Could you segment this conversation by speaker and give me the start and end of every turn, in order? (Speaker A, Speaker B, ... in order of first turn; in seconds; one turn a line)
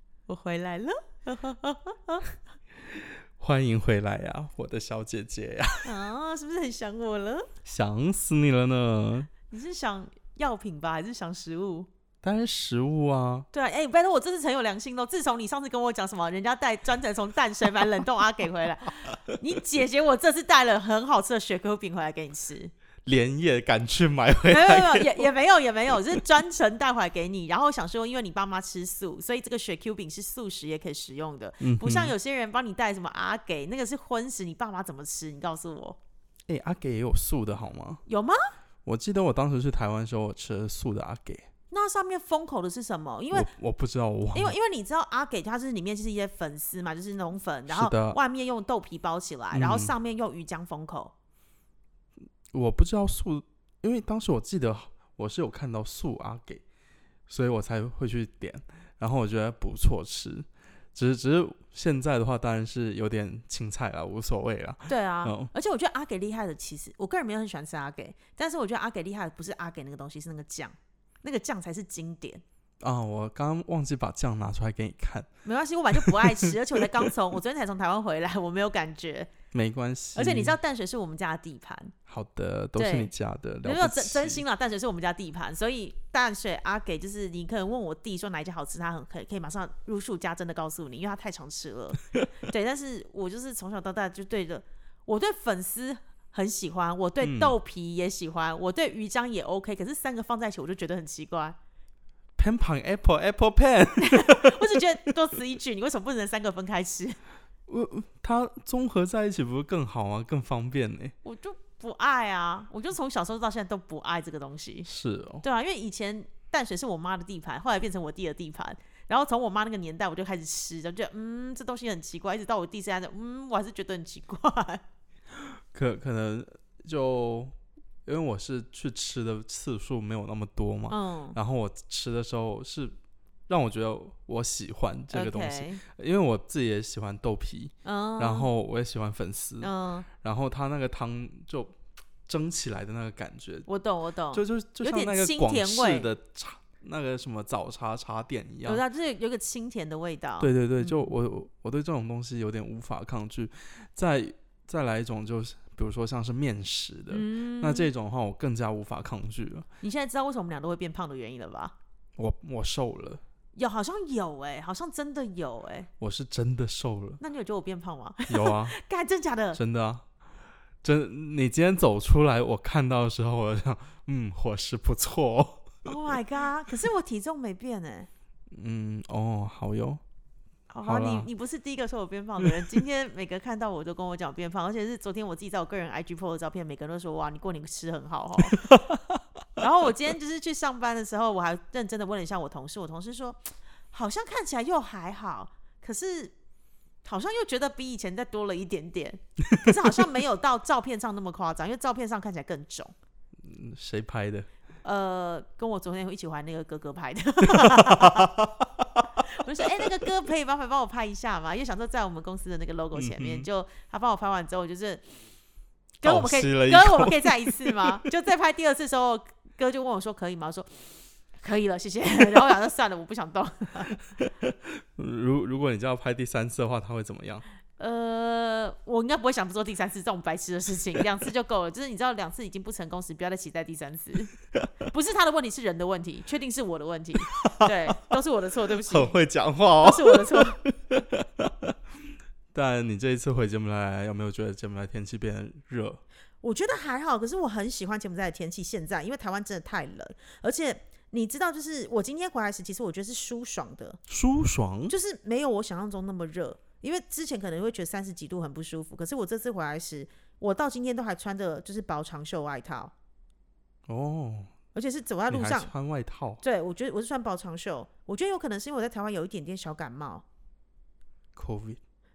Speaker A: 0.3-2.3
Speaker B: 2.9-5.9
Speaker A: 5.8-7.5
Speaker B: 7.6-9.3
Speaker A: 9.5-11.9
Speaker B: 12.2-13.5
Speaker A: 13.5-22.7
Speaker B: 23.1-25.3
Speaker A: 24.5-36.0
Speaker B: 31.6-32.1
Speaker B: 36.5-38.0
Speaker A: 38.1-38.4
Speaker B: 38.8-41.5
Speaker A: 41.7-43.5
Speaker B: 43.3-44.5
Speaker A: 44.3-51.1
Speaker B: 47.7-48.2
Speaker B: 49.5-49.9
Speaker B: 52.5-56.6
Speaker B: 57.3-65.5
Speaker A: 64.9-72.4
Speaker B: 72.8-75.3
Speaker A: 75.4-79.3
Speaker B: 76.0-76.5
Speaker B: 79.5-80.5
Speaker A: 80.2-81.9
Speaker B: 82.1-84.4
Speaker A: 82.8-83.1
Speaker A: 83.6-101.6
Speaker B: 97.2-97.5
Speaker B: 102.4-104.8
Speaker A: 104.0-107.2
Speaker B: 107.7-111.1
Speaker A: 111.2-114.9
Speaker B: 114.8-115.4
Speaker A: 115.4-124.8
Speaker B: 125.4-127.5
Speaker B: 128.1-132.9
Speaker A: 130.9-131.3
Speaker B: 133.5-141.7
Speaker A: 135.1-135.8
Speaker A: 137.8-138.5
Speaker A: 139.6-140.1
Speaker B: 142.2-143.7
Speaker A: 143.7-146.1
Speaker B: 144.3-148.8
Speaker A: 148.7-151.1
Speaker B: 150.4-159.7
Speaker A: 157.1-157.9
Speaker A: 159.8-161.7
Speaker B: 162.2-163.2
Speaker A: 163.6-165.9
Speaker B: 166.0-167.2
Speaker A: 167.2-169.6
Speaker B: 168.3-168.7
Speaker B: 169.5-170.0
Speaker B: 170.8-175.8
Speaker A: 175.8-178.1
Speaker B: 178.5-180.0
Speaker A: 180.7-188.7
Speaker B: 180.8-181.3
Speaker B: 188.5-189.2
Speaker A: 189.6-196.3
Speaker A: 197.0-202.9
Speaker B: 203.4-204.5
Speaker A: 204.8-208.3
Speaker B: 207.5-209.2
Speaker A: 209.2-215.0
Speaker B: 212.9-213.5
Speaker B: 216.0-218.0
Speaker A: 216.0-224.0
Speaker B: 224.2-227.4
Speaker A: 227.8-234.3
Speaker A: 234.9-239.1
Speaker B: 237.3-237.9
Speaker B: 238.9-241.7
Speaker A: 239.8-240.6
Speaker B: 242.5-246.0
Speaker A: 246.4-254.0
Speaker B: 254.1-254.9
Speaker A: 254.9-262.9
Speaker B: 263.9-264.5
Speaker A: 264.7-265.7
Speaker B: 265.3-266.4
Speaker A: 266.4-270.2
Speaker B: 271.3-271.8